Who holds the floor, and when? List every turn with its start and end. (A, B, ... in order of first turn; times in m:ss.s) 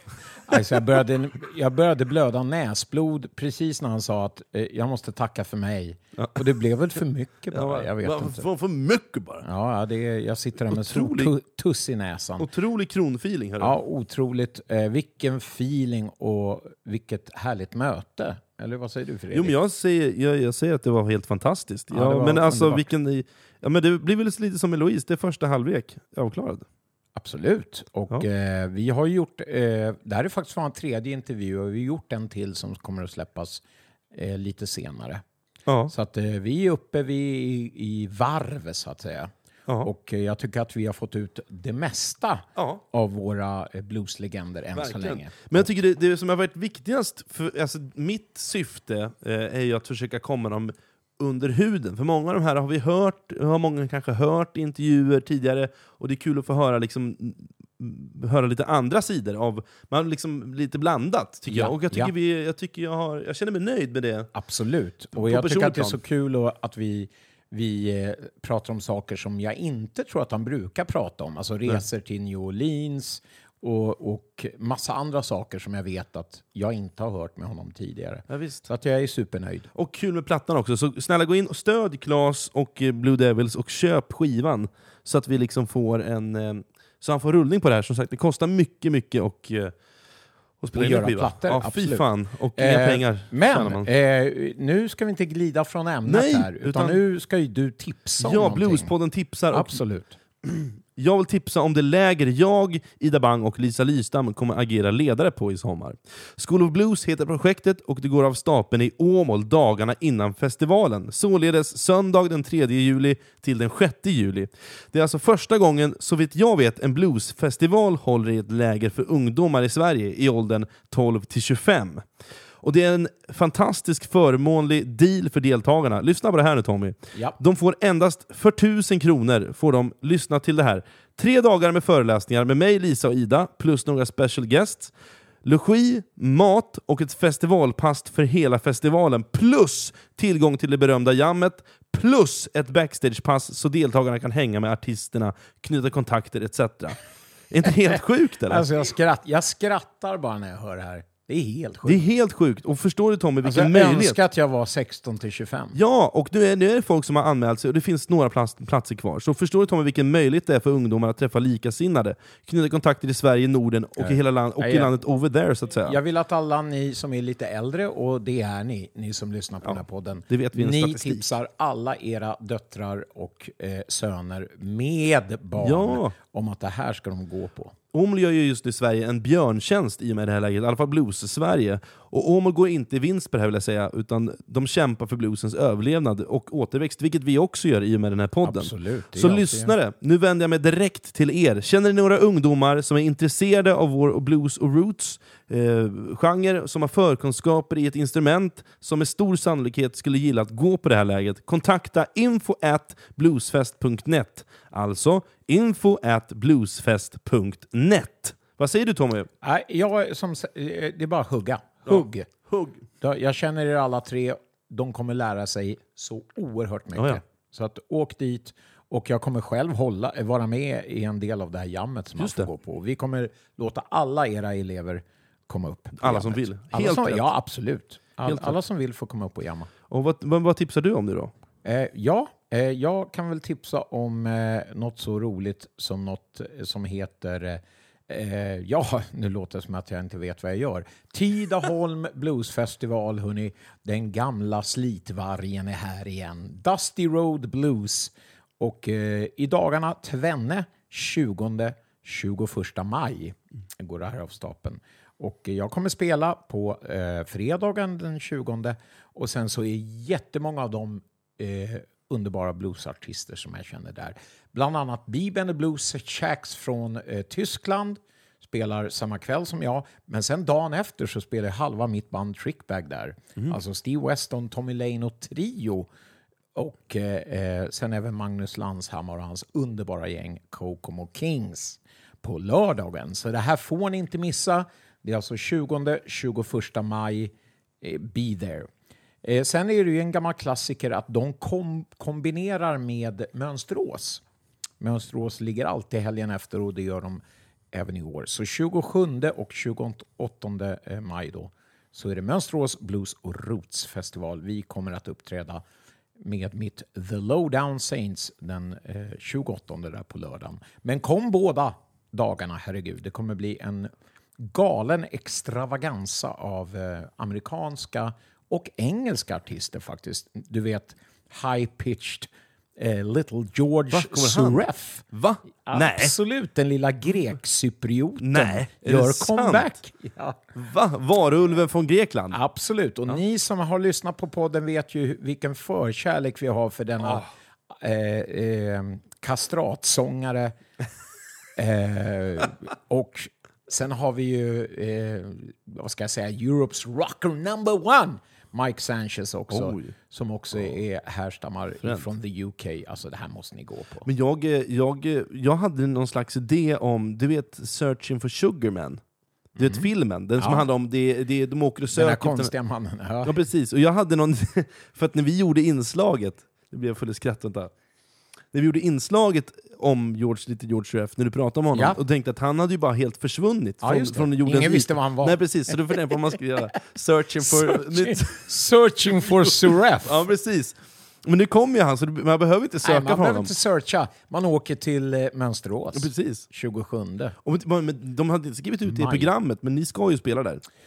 0:00.5-0:08.4 A
0:06.2-0:06.4 B
0:07.5-0:09.5 B
0:09.4-0:12.5 A
0:10.7-0:11.3 B
0:12.4-0:13.8 B
0:13.6-0:19.5 A
0:19.3-0:26.7 B
0:21.9-0:22.9 A
0:27.2-0:35.2 A
0:35.7-0:35.9 B
0:35.9-0:45.7 A
0:42.6-0:42.8 B
0:44.8-1:04.3 B
1:01.5-1:02.1 A
1:04.3-1:19.7 A
1:05.1-1:06.0 B
1:18.3-1:18.7 B
1:19.7-1:29.9 B
1:30.6-1:33.9 B
1:30.7-1:38.9 A
1:36.1-1:37.0 B
1:38.2-1:39.8 B
1:39.5-1:40.2 A
1:40.4-2:14.9 B
2:15.4-2:28.7 B
2:28.5-2:32.0 A
2:31.8-2:34.2 B
2:33.4-2:35.8 A
2:35.7-2:46.0 B
2:44.0-2:44.9 A
2:45.9-2:57.8 A
2:49.6-2:51.3 B
2:55.6-2:56.1 B
2:57.9-3:29.3 B
3:08.4-3:09.7 A
3:29.4-3:32.3 A
3:31.9-3:32.8 B
3:33.0-3:49.7 A
3:42.2-3:42.5 B
3:46.0-3:47.3 B
3:48.2-3:48.6 B
3:49.9-3:51.3 B
3:51.6-4:35.9 A
4:36.5-4:48.7 A
4:49.2-4:54.2 A
4:54.8-5:05.6 A
5:06.2-5:25.0 A
5:23.9-5:26.1 B
5:25.7-5:30.4 A
5:28.2-5:29.7 B
5:30.6-5:32.4 B
5:32.3-5:40.5 A
5:41.6-5:54.1 A
5:49.5-5:49.9 B
5:51.8-5:52.1 B
5:54.0-5:59.0 B
5:59.6-6:02.5 B
5:59.6-5:59.8 A
6:00.4-6:00.7 A
6:01.9-6:03.3 A
6:03.2-6:07.7 B
6:08.5-6:18.6 B
6:11.7-6:12.0 A
6:13.8-6:15.8 A
6:17.4-6:20.2 A
6:19.1-6:23.5 B
6:22.8-6:27.4 A
6:25.9-6:26.4 B
6:27.4-6:30.6 B
6:28.9-6:29.3 A